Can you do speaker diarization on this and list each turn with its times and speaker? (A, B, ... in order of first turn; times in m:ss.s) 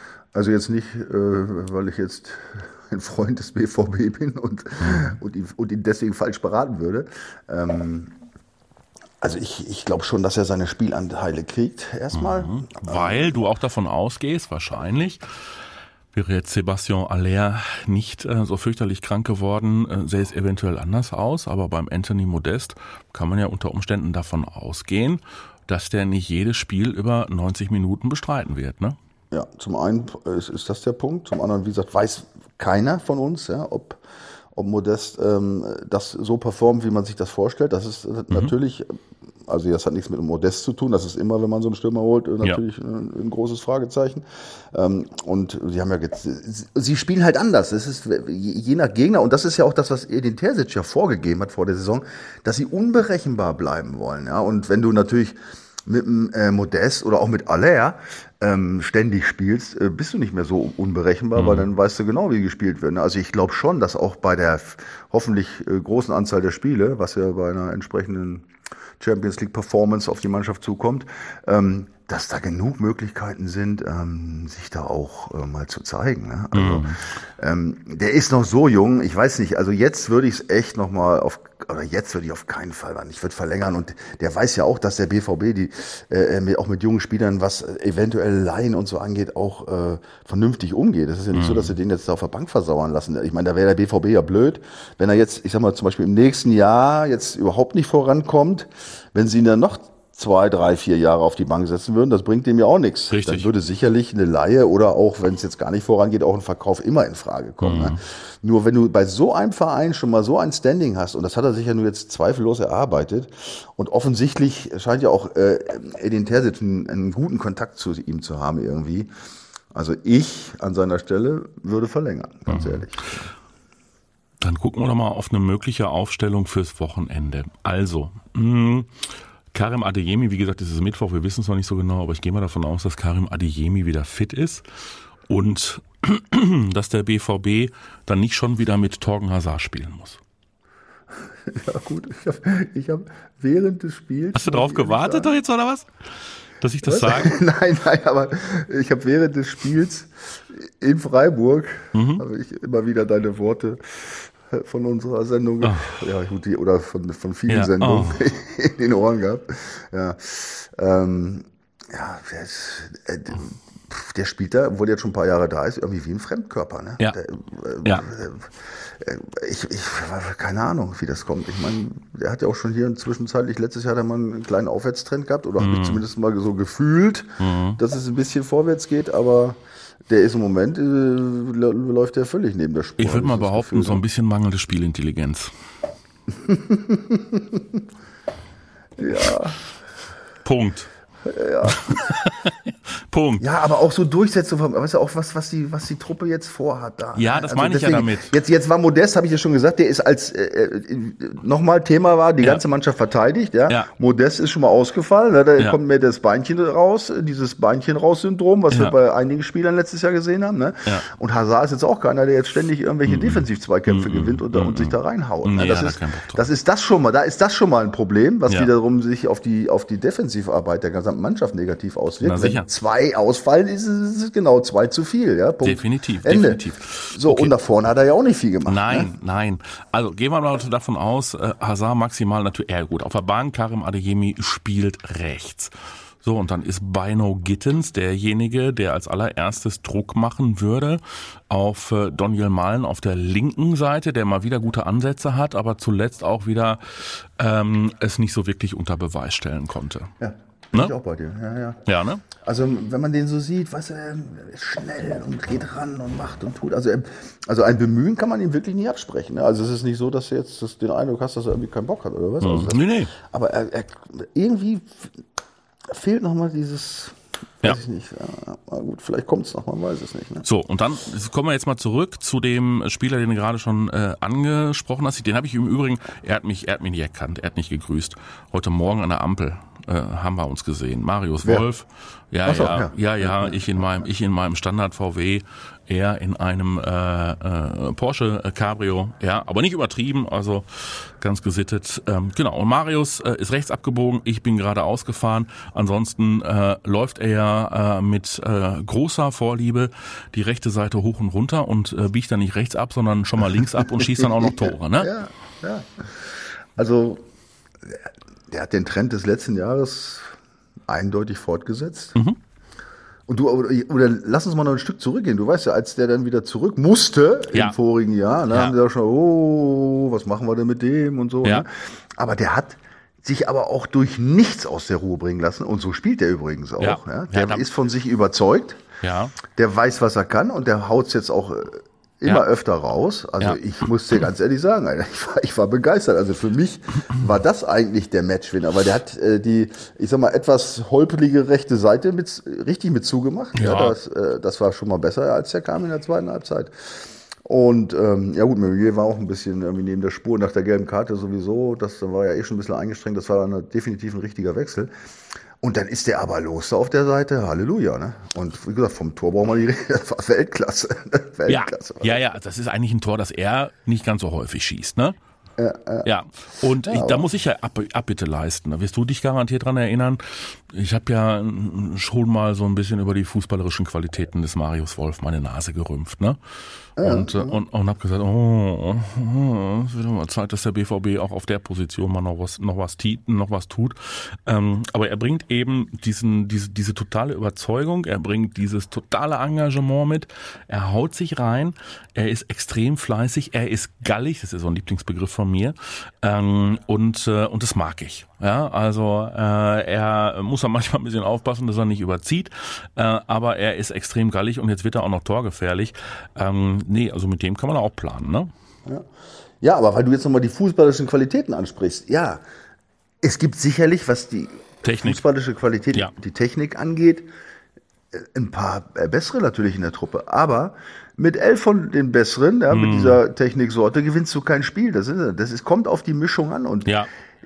0:00.3-0:08.2 A
0:04.8-0:05.2 B
0:09.2-0:13.3 A
0:12.1-0:15.2 B
0:16.1-0:29.0 B
0:29.3-0:34.0 A
0:34.6-1:08.5 A
1:01.4-1:01.7 B
1:09.0-1:59.1 A
1:16.5-1:17.0 B
1:31.3-1:31.8 B
1:43.1-1:43.5 B
1:47.6-1:48.0 B
1:59.7-2:03.2 A
2:02.5-2:02.8 B
2:04.4-2:14.6 B
2:15.3-2:20.2 B
2:21.5-2:25.3 A
2:24.3-2:25.9 B
2:26.6-2:27.4 B
2:26.8-2:59.6 A
2:31.9-2:32.2 B
2:35.6-2:35.9 B
2:37.5-2:38.2 B
2:55.6-2:56.0 B
2:57.4-2:57.8 B
3:00.1-3:04.0 A
3:03.0-3:05.5 B
3:06.4-3:07.8 A
3:09.0-3:09.6 A
3:10.4-3:10.9 B
3:11.2-3:12.2 A
3:11.7-3:13.4 B
3:13.4-3:49.1 A
3:17.2-3:18.4 B
3:28.7-3:29.0 B
3:33.1-3:36.4 B
3:42.2-3:42.7 B
3:45.6-3:47.5 B
3:48.7-4:10.1 B
4:10.2-4:11.9 A
4:11.9-4:12.2 B
4:12.4-4:25.1 A
4:22.4-4:23.1 B
4:25.9-4:30.5 A
4:30.4-5:05.1 B
4:42.5-4:43.8 A
5:03.7-5:07.2 A
5:07.9-5:10.3 A
5:10.9-5:12.2 A
5:13.3-5:28.8 A
5:18.5-5:18.8 B
5:26.8-5:27.7 B
5:29.0-5:29.4 B
5:29.5-5:46.7 A
5:43.6-5:44.0 B
5:47.4-5:54.9 A
5:55.6-6:02.2 A
6:01.5-6:05.2 B
6:05.6-6:06.1 A
6:06.0-6:16.4 B
6:06.8-6:07.2 A
6:17.0-6:17.6 A
6:17.0-6:48.5 B
6:49.6-6:52.4 A
6:53.2-6:57.3 A
6:54.8-6:55.2 B
6:58.1-7:07.0 A
7:02.7-7:03.2 B